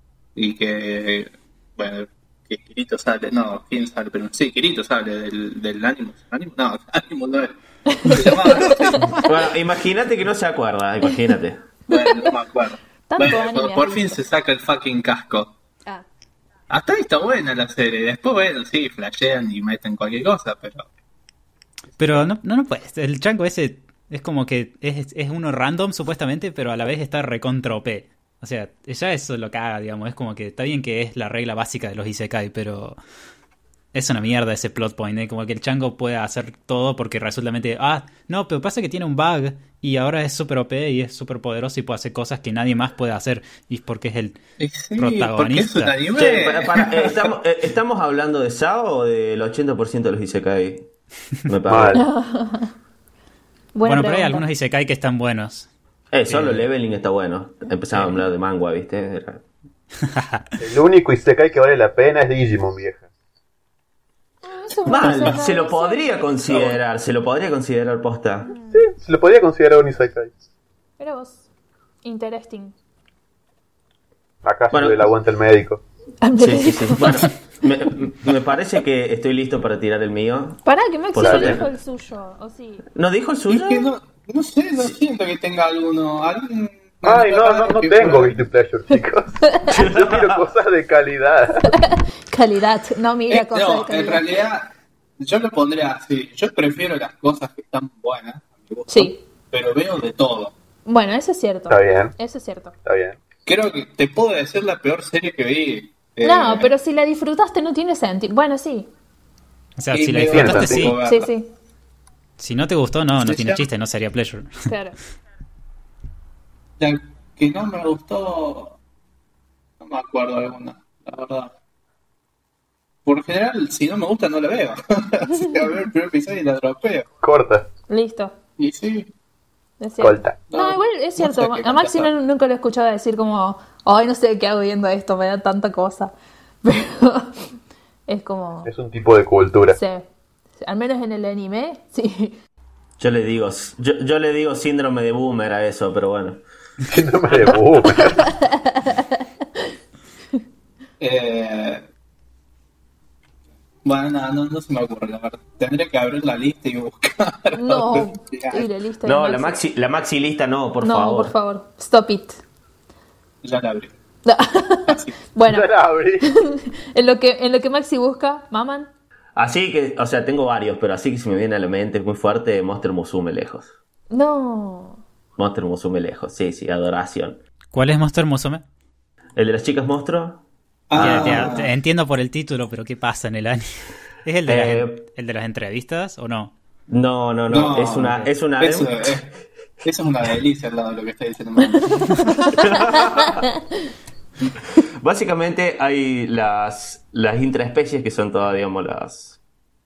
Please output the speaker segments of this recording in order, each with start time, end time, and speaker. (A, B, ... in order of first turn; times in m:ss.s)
0:00.3-0:09.3 A
0:07.9-0:09.2 B
0:09.2-0:11.7 C
0:11.9-0:15.5 A
0:11.9-0:12.3 B
0:13.1-0:14.2 B
0:16.7-0:20.9 A
0:22.0-0:33.0 D
0:33.9-0:44.4 D
0:44.6-0:47.3 A
0:45.0-0:45.9 D
0:46.2-0:50.9 C
0:51.5-0:52.0 C
0:51.7-0:52.0 E
0:51.9-0:52.7 B
0:53.7-0:54.4 B
0:53.8-0:55.7 D
0:56.1-0:59.4 C
0:56.3-0:56.7 D
1:00.1-1:00.4 D
1:00.6-1:03.0 E
1:04.4-1:06.0 B
1:04.8-1:08.5 C
1:04.9-1:05.4 A
1:06.5-1:06.8 A
1:08.4-1:08.9 B
1:08.7-1:10.3 E
1:11.0-1:11.4 B
1:12.0-1:12.7 B
1:14.4-1:15.8 E
1:14.7-1:15.1 C
1:16.2-1:17.3 B
1:16.4-1:21.7 C
1:20.6-1:22.8 B
1:21.2-1:21.6 E
1:22.9-1:23.9 C
1:23.5-1:28.4 A
1:27.0-1:31.7 E
1:29.4-1:29.8 B
1:29.7-1:30.5 C
1:31.6-1:34.2 B
1:33.3-1:40.5 A
1:38.9-1:39.2 B
1:40.8-1:42.7 B
1:41.7-1:42.2 E
1:42.8-1:43.2 E
1:43.4-1:46.7 A
1:46.2-1:48.9 B
1:49.8-1:51.0 D
1:49.9-1:51.3 A
1:50.3-1:50.9 E
1:51.0-1:51.5 B
1:52.4-1:54.7 D
1:53.2-1:53.6 A
1:54.7-1:55.0 B
1:56.8-1:58.8 A
1:59.8-2:01.5 A
2:03.0-2:07.1 A
2:07.2-2:07.7 E
2:07.9-2:08.3 B
2:08.6-2:09.1 A
2:09.8-2:17.5 B
2:10.0-2:10.4 E
2:10.5-2:12.1 A
2:18.1-2:18.7 B
2:18.7-2:19.8 E
2:19.7-2:20.0 B
2:20.6-2:22.4 B
2:23.0-2:26.4 C
2:26.9-2:28.3 E
2:28.0-2:29.7 B
2:31.0-2:31.9 A
2:33.8-2:38.7 A
2:37.5-2:39.6 B
2:39.0-2:41.3 C
2:40.8-2:42.4 B
2:43.4-2:43.9 A
2:44.2-2:48.9 B
2:44.9-2:45.3 A
2:45.4-2:46.3 E
2:49.4-2:53.7 C
2:54.1-2:55.0 B
2:55.4-2:57.4 C
2:57.7-2:58.6 D
2:59.4-3:00.4 C
3:00.9-3:01.7 A
3:00.9-3:01.6 C
3:01.0-3:06.5 D
3:04.5-3:05.0 C
3:06.9-3:09.2 C
3:07.5-3:12.5 A
3:11.8-3:12.6 B
3:12.5-3:13.4 C
3:15.0-3:19.4 C